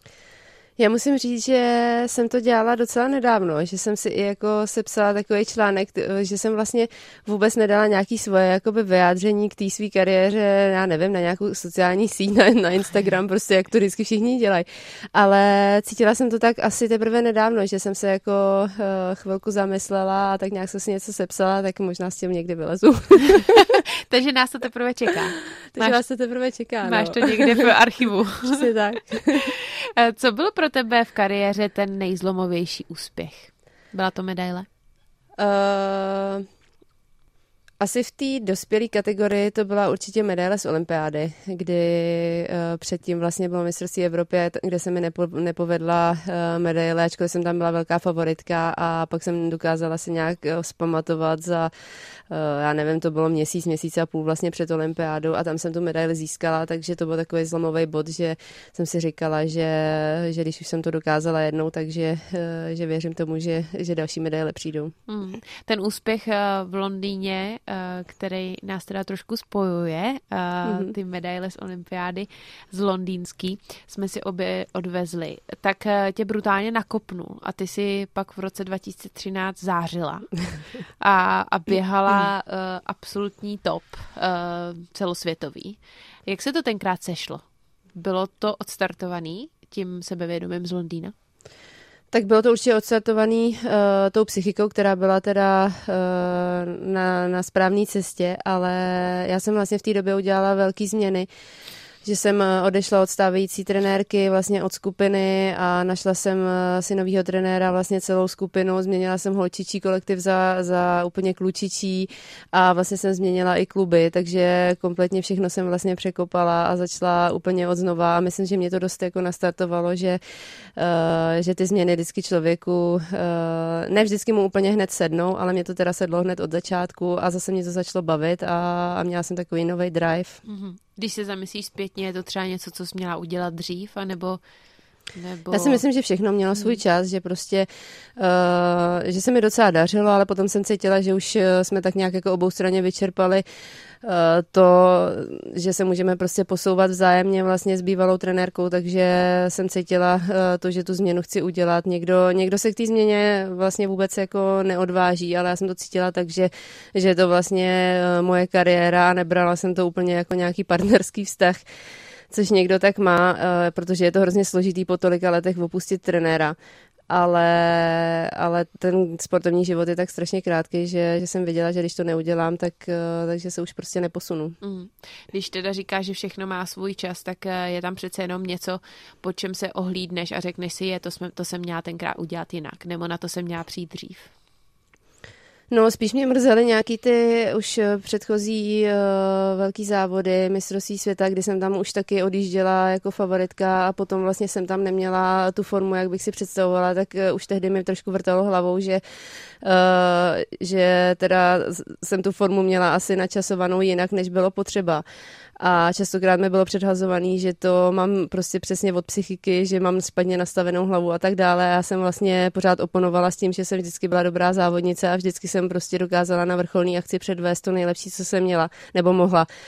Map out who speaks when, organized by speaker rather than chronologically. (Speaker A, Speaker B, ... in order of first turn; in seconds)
Speaker A: 0.8-23.6, 25.7-27.7, 28.5-29.5, 35.4-36.5, 37.8-51.7, 52.3-64.9, 70.7-70.9, 92.1-101.3, 102.0-120.2, 120.8-130.4, 135.5-143.4, 144.0-161.6, 162.3-166.6, 167.1-174.6, 185.7-199.0, 199.6-205.0, 205.6-219.5
Speaker B: 23.4-26.0, 26.8-28.7, 29.4-34.7, 65.1-80.4, 81.0-87.4, 88.0-91.1, 130.4-134.4, 135.1-135.8, 174.6-184.3